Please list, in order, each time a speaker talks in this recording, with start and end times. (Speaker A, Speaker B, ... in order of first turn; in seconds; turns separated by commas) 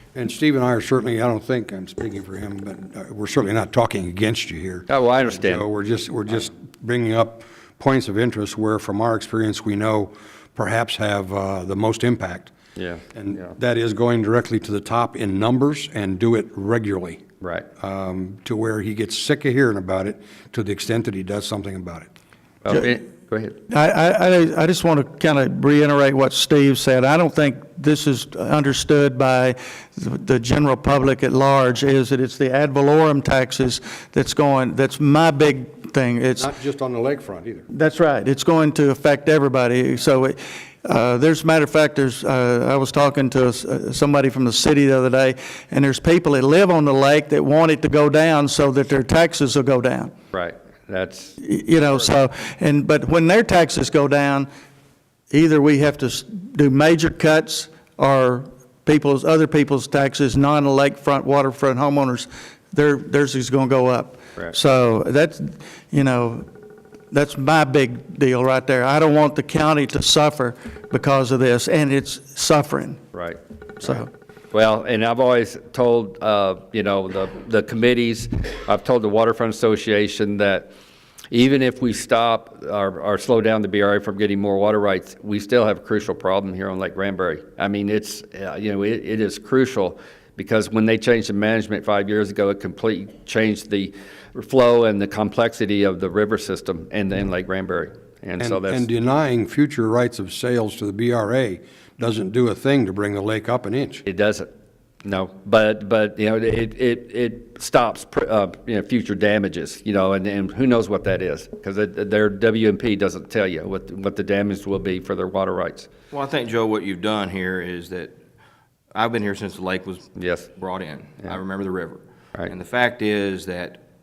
Speaker A: 0.1-12.5, Speaker B: 4.9-5.6, Speaker B: 12.8-13.0, Speaker A: 13.1-17.2, Speaker B: 17.4-17.6, Speaker A: 17.8-22.1, Speaker B: 22.6-23.6, Speaker C: 23.7-36.5, Speaker A: 36.4-37.7, Speaker C: 37.7-50.1, Speaker B: 50.3-51.4, Speaker C: 51.4-54.5, Speaker C: 55.3-66.5, Speaker C: 67.1-73.0, Speaker B: 73.1-74.0, Speaker C: 73.8-74.1, Speaker B: 74.5-80.7, Speaker B: 81.3-98.9, Speaker A: 98.4-104.0, Speaker B: 104.0-104.5, Speaker B: 105.0-115.9, Speaker D: 116.1-118.1, Speaker D: 118.9-123.8, Speaker B: 120.2-120.5